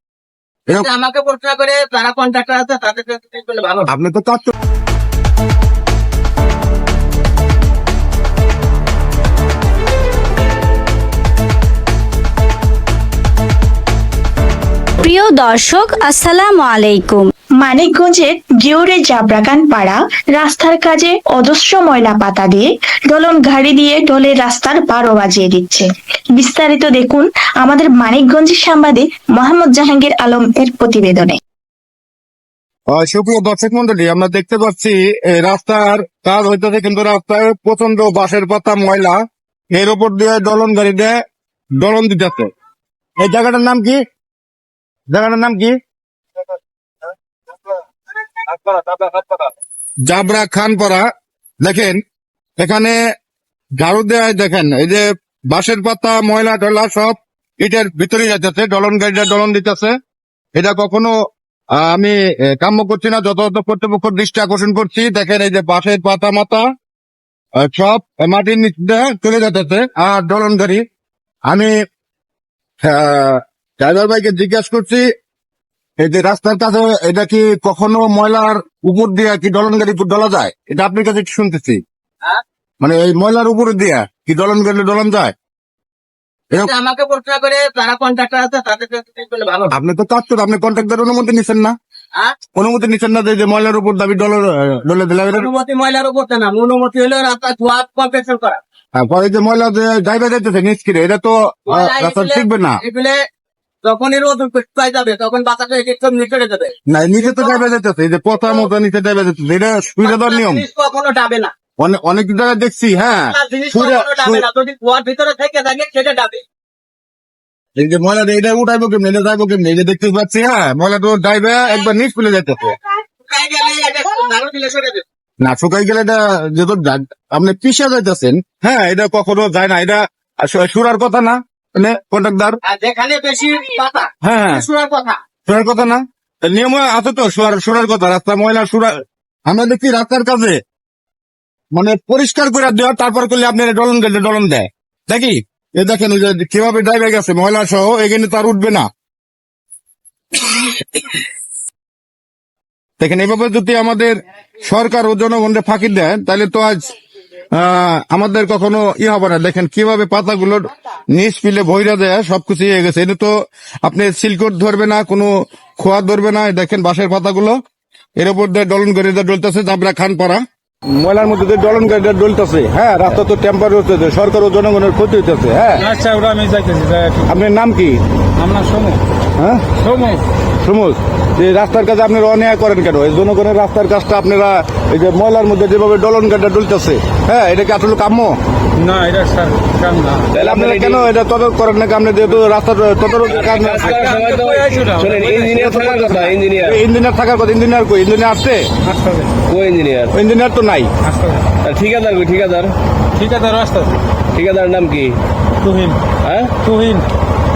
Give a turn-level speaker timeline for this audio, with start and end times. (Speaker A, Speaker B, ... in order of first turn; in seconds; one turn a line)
Speaker A: 0.8-3.9
Speaker B: 3.9-4.5
Speaker C: 15.0-17.3
Speaker D: 17.6-31.4
Speaker B: 32.9-39.2
Speaker B: 39.7-41.1
Speaker B: 41.8-42.5
Speaker B: 43.2-44.0
Speaker B: 45.1-45.8
Speaker B: 48.4-49.5
Speaker B: 50.1-51.0
Speaker B: 51.6-52.0
Speaker B: 52.6-53.0
Speaker B: 53.8-59.9
Speaker B: 60.5-61.1
Speaker B: 61.7-66.6
Speaker B: 67.6-70.8
Speaker B: 71.5-71.7
Speaker B: 72.8-75.0
Speaker B: 76.0-81.8
Speaker B: 82.8-85.3
Speaker A: 86.6-89.7
Speaker B: 89.7-91.7
Speaker B: 92.5-95.5
Speaker A: 95.3-98.6
Speaker B: 99.0-102.8
Speaker A: 101.7-103.2
Speaker A: 103.8-107.6
Speaker B: 106.9-110.6
Speaker A: 108.4-108.7
Speaker A: 110.0-111.5
Speaker B: 111.8-114.5
Speaker A: 113.2-116.4
Speaker B: 117.8-122.8
Speaker A: 123.2-125.0
Speaker B: 125.4-132.6
Speaker A: 132.6-135.2
Speaker B: 134.2-134.6
Speaker B: 135.4-138.9
Speaker B: 139.4-140.6
Speaker B: 141.7-148.9
Speaker B: 153.0-156.9
Speaker B: 157.5-163.3
Speaker B: 163.8-167.6
Speaker B: 168.2-175.9
Speaker E: 175.8-177.3
Speaker B: 177.3-178.0
Speaker E: 178.4-179.0
Speaker B: 179.4-179.7
Speaker E: 179.8-180.2
Speaker B: 180.6-188.3
Speaker E: 188.8-190.3
Speaker F: 190.3-191.1
Speaker B: 190.4-193.9
Speaker F: 193.3-196.8
Speaker E: 193.8-195.5
Speaker B: 195.5-198.7
Speaker E: 198.8-199.4
Speaker F: 199.5-200.1
Speaker B: 200.1-200.9
Speaker E: 201.0-201.4
Speaker F: 201.6-202.7
Speaker E: 203.2-203.9
Speaker F: 204.3-205.1
Speaker E: 205.6-206.0
Speaker F: 206.2-206.6
Speaker E: 206.6-207.0